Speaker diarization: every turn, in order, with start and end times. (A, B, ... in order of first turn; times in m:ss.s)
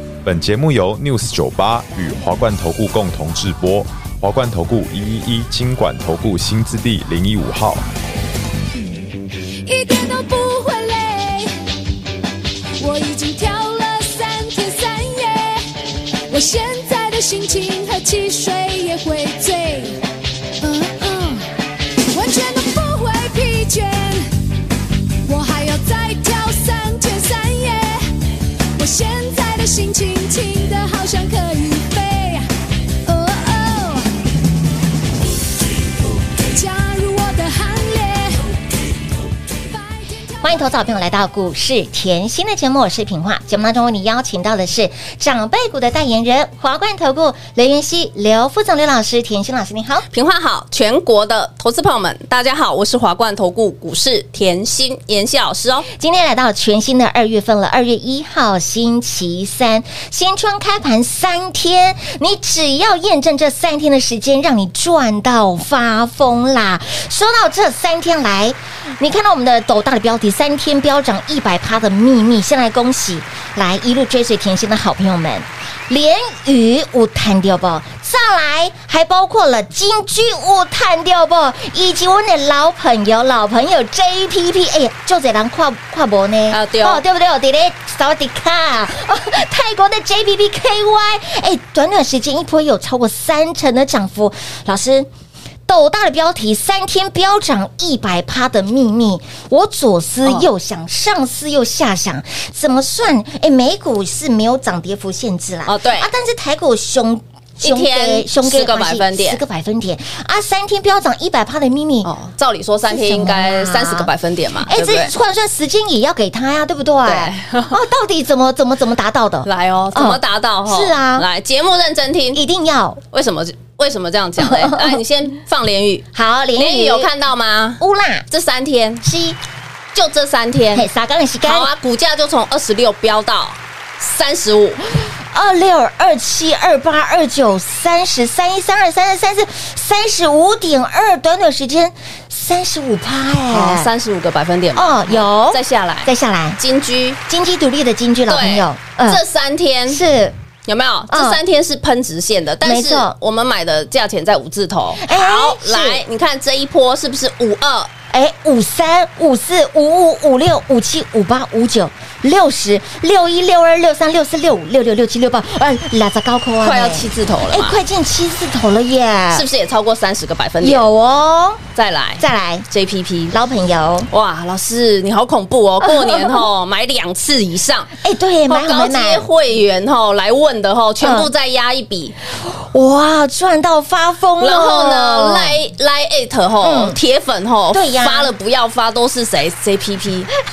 0:00.2-0:07.8 A
0:09.6-0:11.5 B
0:12.8-0:15.6 B
0:16.3-0:20.0 B
0:20.6-0:21.5 B
0:22.1-0:24.3 B
0:25.2-0:28.0 B
0:28.8-0:32.4 B
0:33.0-0:34.0 B
0:36.3-0:38.4 B
0:39.5-0:40.6 B
0:40.4-0:50.0 C
0:50.1-0:55.9 D
0:55.9-1:35.1 C
1:26.5-1:27.0 D
1:35.7-1:52.1 C
1:45.7-1:46.1 D
1:47.6-1:49.4 D
1:52.0-1:55.1 D
1:52.9-1:54.1 C
1:54.6-2:01.2 C
1:57.0-1:57.8 D
1:59.4-2:02.4 D
2:02.3-2:03.0 C
2:03.1-2:06.0 D
2:04.4-2:05.0 C
2:06.1-2:07.1 C
2:06.6-2:09.0 D
2:07.8-2:08.2 C
2:09.0-2:09.4 C
2:09.9-2:10.9 D
2:10.7-2:11.7 C
2:11.4-2:14.8 D
2:14.9-2:23.9 C
2:23.5-2:27.2 D
2:24.7-2:26.6 C
2:27.3-2:29.2 C
2:28.3-2:30.0 D
2:29.9-2:30.4 C
2:30.7-2:37.9 D
2:31.1-2:31.4 C
2:32.6-2:33.1 C
2:35.0-2:36.0 C
2:38.1-2:49.4 C
2:46.6-2:47.8 D
2:49.3-2:50.8 D
2:50.6-2:51.6 C
2:51.8-2:53.3 D
2:52.2-2:52.6 C
2:53.3-2:54.1 C
2:54.1-2:57.9 D
2:55.8-2:56.4 C
2:58.0-2:59.3 C
2:58.5-3:02.1 D
3:01.0-3:01.3 C
3:02.3-3:05.6 C
3:04.4-3:10.3 D
3:06.6-3:07.0 C
3:07.7-3:08.3 C